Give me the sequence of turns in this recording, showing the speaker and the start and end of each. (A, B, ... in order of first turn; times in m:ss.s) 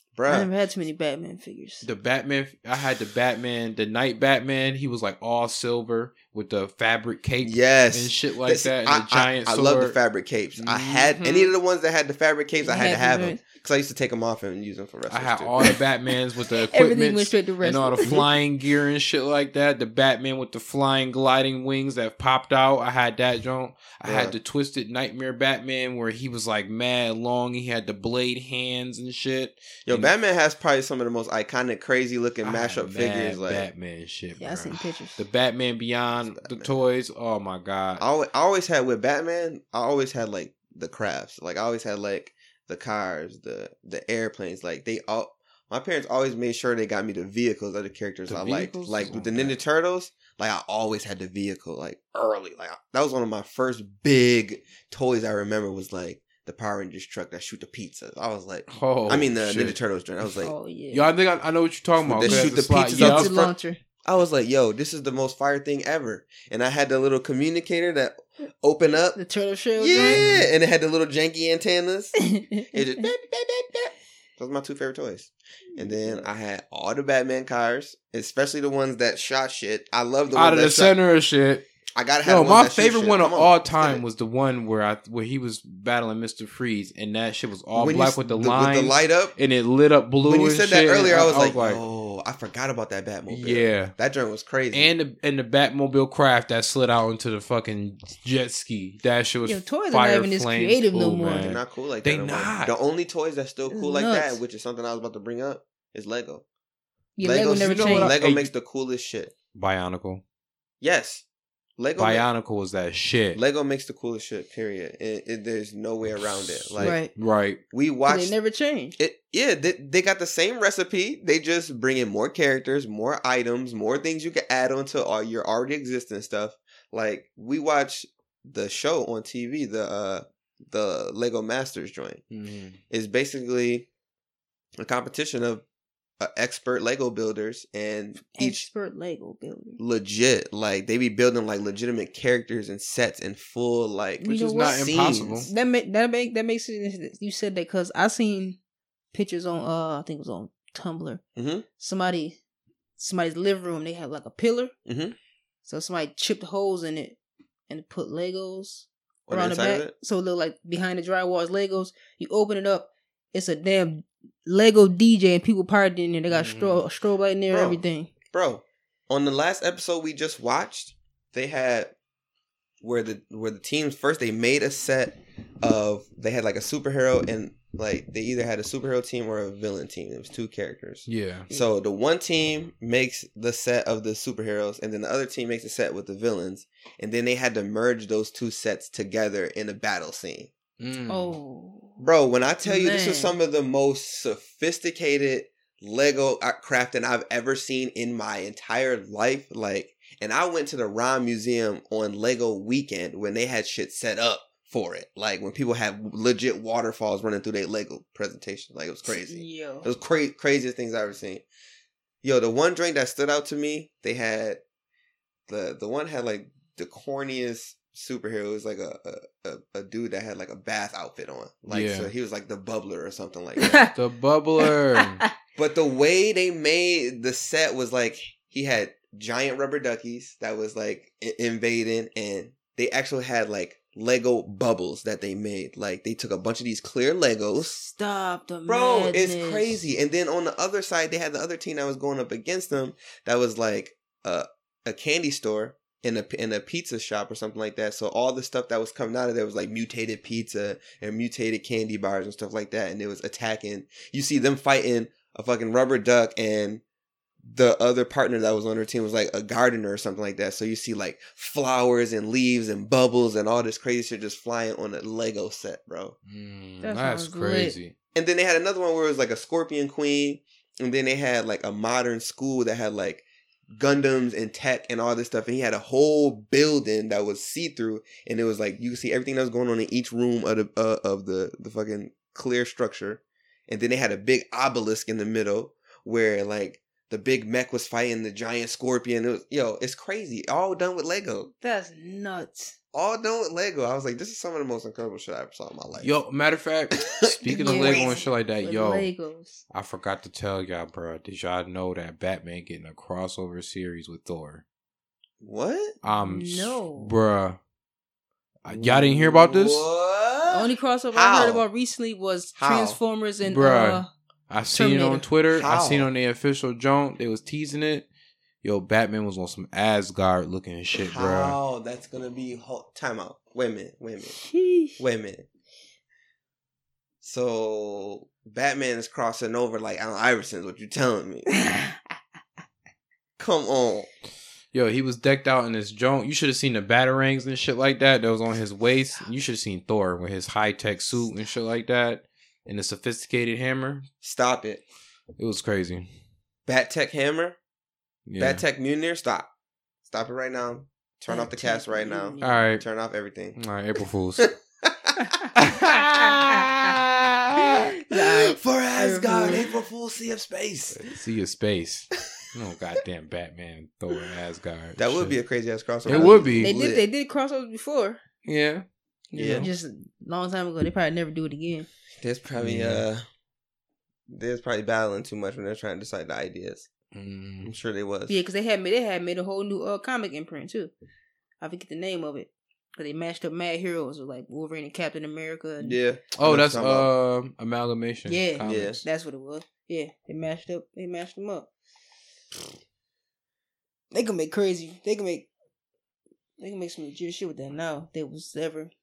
0:00.1-0:00.5 A
0:00.3-0:01.8 B
0:01.8-0:10.0 C
0:07.4-0:15.6 A
0:10.6-0:11.5 C
0:12.6-0:13.4 B
0:15.1-0:30.1 C
0:16.5-0:18.3 B
0:24.0-0:24.3 A
0:29.9-0:33.7 A
0:32.4-0:38.0 C
0:34.4-0:35.2 B
0:36.3-0:36.8 A
0:38.0-1:00.5 A
0:48.3-0:49.6 C
0:58.7-0:59.8 C
1:00.4-1:01.1 B
1:00.9-1:03.3 C
1:02.0-1:03.5 A
1:02.2-1:03.8 B
1:04.0-1:09.2 A
1:09.2-1:10.3 B
1:09.8-1:12.1 A
1:10.0-1:10.5 C
1:12.2-1:13.0 B
1:12.7-1:21.0 A
1:15.8-1:16.2 B
1:20.3-1:21.6 C
1:22.0-1:24.0 A
1:22.2-1:31.8 C
1:27.7-1:29.3 A
1:30.2-1:34.9 A
1:33.3-1:33.9 C
1:34.7-1:42.7 C
1:39.4-1:41.5 B
1:41.4-1:46.4 A
1:43.7-1:44.4 B
1:47.2-1:48.1 B
1:47.2-1:49.3 A
1:47.5-1:48.5 C
1:49.5-1:50.2 C
1:50.8-1:51.2 A
1:51.8-1:52.3 A
1:52.0-1:53.4 C
1:53.3-1:57.0 A
1:56.6-1:57.6 C
1:56.8-1:57.1 B
1:57.7-1:58.3 A
1:58.1-1:59.0 B
1:59.0-2:12.2 A
2:12.3-2:12.8 C
2:12.9-2:13.9 A
2:14.8-2:15.6 A
2:16.2-2:18.7 A
2:18.3-2:19.8 B
2:19.8-2:25.5 A
2:24.2-2:28.6 B
2:24.3-2:25.5 C
2:29.1-2:31.2 B
2:31.3-2:31.6 A
2:31.8-2:32.4 B
2:33.0-2:34.7 B
2:34.8-2:35.2 A
2:35.6-2:37.2 B
2:37.7-2:48.1 B
2:39.3-2:39.9 A
2:46.3-2:46.8 C
2:47.5-2:51.9 A
2:52.8-3:10.5 A
3:01.0-3:01.5 C
3:10.8-3:11.3 C
3:11.1-3:12.0 B
3:12.0-3:31.4 A
3:12.6-3:13.4 B
3:29.0-3:29.9 B
3:32.2-3:34.6 A
3:35.5-3:43.9 A
3:41.7-3:42.1 C
3:43.6-3:43.9 B
3:43.9-3:45.2 C
3:44.6-3:45.3 B
3:45.6-3:57.8 A
3:57.6-3:59.8 B
3:58.7-4:16.8 A
4:17.4-4:26.2 A
4:26.3-4:27.9 C
4:26.8-4:27.8 B
4:28.1-4:51.5 A
4:51.6-4:52.8 B
4:52.9-4:56.1 A
4:56.0-4:59.1 C
4:57.0-4:58.2 A
4:57.5-4:59.6 B
4:59.7-5:04.6 C
5:05.4-5:05.9 A
5:06.0-5:07.6 C
5:06.2-5:07.1 B
5:08.6-5:09.9 C
5:08.7-5:11.6 A
5:10.5-5:14.1 B
5:12.6-5:13.0 A
5:13.4-5:18.1 C
5:14.7-5:15.2 B
5:15.5-5:16.1 A
5:18.6-5:21.6 C
5:21.0-5:24.4 A
5:24.3-5:25.0 B
5:25.0-5:25.4 A
5:27.2-5:31.5 A
5:31.5-5:32.0 B
5:33.4-5:34.1 A
5:34.7-5:44.1 C
5:44.2-5:44.8 A
5:45.4-5:46.1 C
5:46.7-5:47.6 A
5:48.3-5:48.6 C
5:48.4-5:49.5 A
5:50.0-5:53.6 A
5:51.3-5:52.6 B
5:52.4-5:52.8 C
5:53.6-5:54.5 C
5:54.4-5:55.3 A
5:55.6-5:57.0 C
5:57.7-6:01.0 A
5:57.7-5:59.6 B
6:00.9-6:05.4 C
6:05.0-6:07.0 A
6:06.0-6:06.7 C
6:06.1-6:08.2 B
6:08.4-6:09.7 C
6:09.3-6:09.7 A
6:09.6-6:11.9 B
6:12.2-6:13.2 A
6:12.6-6:13.0 C
6:14.3-6:16.9 A
6:17.1-6:17.7 C
6:17.6-6:18.4 A
6:18.3-6:20.9 B
6:21.6-6:26.0 B
6:25.8-6:27.1 A
6:26.4-6:29.0 C
6:28.3-6:31.7 B
6:28.6-6:29.0 A
6:34.1-6:35.5 B
6:36.6-6:38.9 B